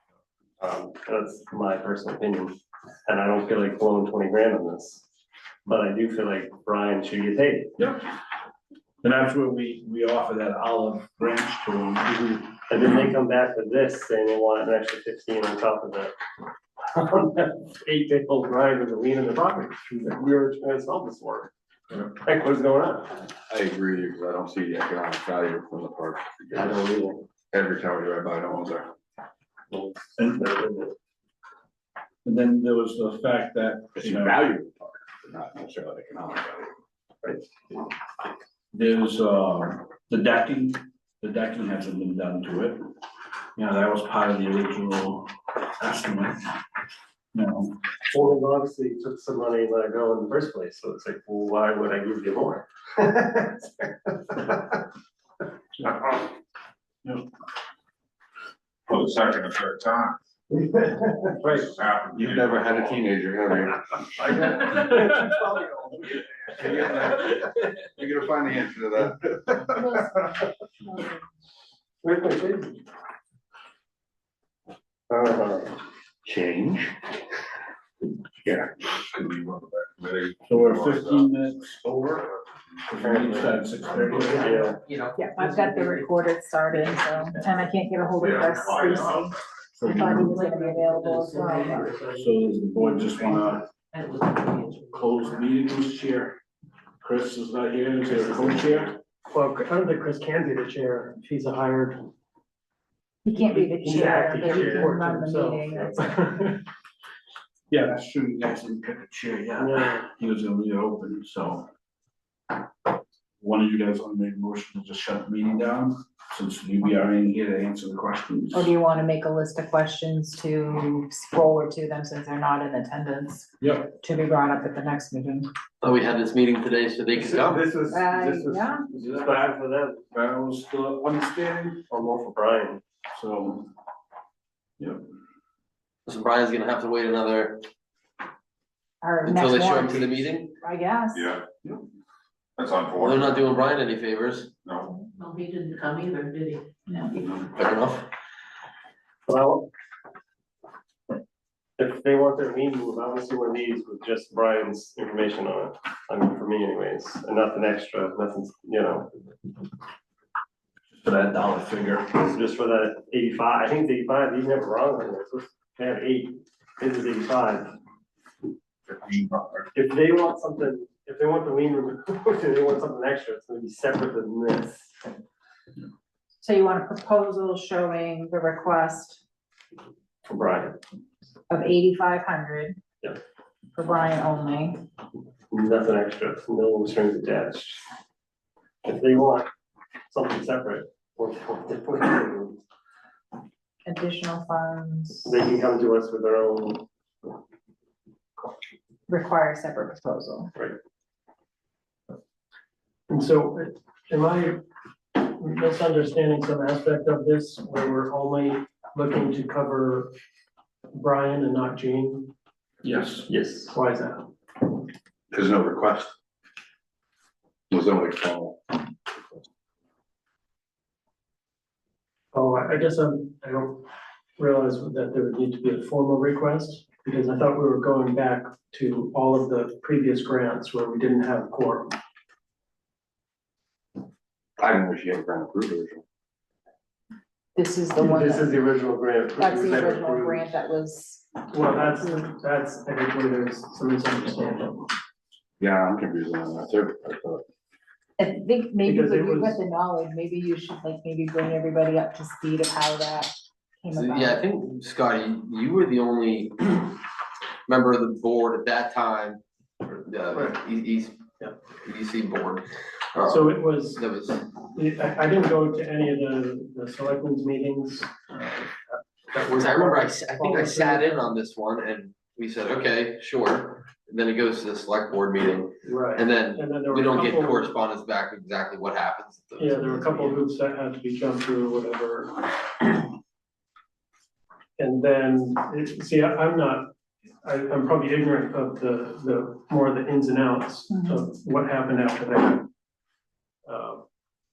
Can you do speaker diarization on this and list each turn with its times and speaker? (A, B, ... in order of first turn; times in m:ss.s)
0:00.6-0:02.6 A
0:03.1-0:05.0 A
0:05.7-0:07.7 A
0:07.8-0:08.1 B
0:09.0-0:12.4 B
0:12.7-0:16.1 A
0:16.9-0:23.2 A
0:23.5-0:26.8 C
0:26.5-0:27.3 A
0:27.5-0:28.9 C
0:29.7-0:30.8 A
0:30.2-0:30.6 B
0:32.2-0:34.4 B
0:34.0-0:36.7 C
0:38.7-0:42.8 B
0:43.6-0:46.5 B
0:47.3-0:47.8 B
0:48.1-0:54.8 A
0:58.9-1:00.2 D
1:01.4-1:01.7 A
1:01.5-1:03.0 D
1:02.1-1:09.8 C
1:04.3-1:04.7 A
1:09.8-1:11.2 E
1:12.0-1:12.8 A
1:15.1-1:15.8 A
1:16.2-1:16.9 C
1:18.4-1:19.0 C
1:19.1-1:21.3 D
1:20.5-1:22.3 B
1:22.8-1:24.7 B
1:23.0-1:23.5 A
1:24.1-1:24.8 A
1:25.2-1:31.9 E
1:28.2-1:29.3 D
1:29.8-1:30.3 B
1:30.5-1:31.1 F
1:30.7-1:32.3 G
1:32.1-1:33.6 B
1:33.0-1:33.4 F
1:33.9-1:35.4 F
1:34.9-1:36.4 B
1:37.0-1:39.0 B
1:38.1-1:38.8 A
1:39.3-1:42.1 G
1:43.2-1:46.1 E
1:43.3-1:46.6 G
1:47.7-1:51.7 B
1:49.6-1:50.1 G
1:53.4-1:58.7 B
1:58.5-2:05.5 E
2:03.6-2:03.9 B
2:05.8-2:07.7 H
2:07.2-2:10.0 A
2:07.9-2:08.9 E
2:10.1-2:11.8 B
2:11.9-2:12.8 A
2:13.2-2:13.7 B
2:16.1-2:17.6 H
2:19.0-2:21.3 E
2:19.2-2:20.5 H
2:21.1-2:21.4 D
2:22.6-2:23.5 D
2:22.9-2:24.5 H
2:24.6-2:24.9 D
2:25.2-2:26.6 F
2:26.9-2:27.2 E
2:27.2-2:28.0 H
2:29.3-2:29.7 A
2:31.8-2:39.1 A
2:40.9-2:42.1 B
2:42.2-2:47.7 A
2:48.9-2:49.6 D
2:49.7-2:54.9 A
2:56.4-2:59.2 E
3:00.3-3:00.8 A
3:01.5-3:02.8 E
3:03.8-3:04.8 E
3:05.5-3:07.8 A
3:08.8-3:09.5 A
3:10.1-3:12.6 A
3:13.9-3:15.3 E
3:15.2-3:16.9 A
3:19.1-3:20.5 E
3:23.1-3:24.6 G
3:25.2-3:30.1 G
3:30.9-3:32.3 G
3:32.8-3:33.3 B
3:33.3-3:33.8 A
3:33.7-3:34.3 G
3:35.3-3:36.1 C
3:37.7-3:38.6 C
3:42.3-3:43.9 G
3:44.4-3:51.9 G
3:54.6-3:56.0 C
3:57.6-3:58.6 E
3:58.0-4:00.5 A
3:59.4-4:02.2 E
4:01.5-4:04.9 G
4:05.6-4:07.4 C
4:08.2-4:14.5 E
4:08.8-4:09.6 G
4:13.9-4:17.0 H
4:17.7-4:24.4 H
4:23.3-4:24.0 G
4:24.7-4:31.2 G
4:29.4-4:40.4 H
4:35.9-4:37.7 G
4:39.6-4:43.0 G
4:44.8-4:46.9 G
4:47.4-4:52.7 G
4:50.9-4:51.2 E
4:53.7-4:54.0 G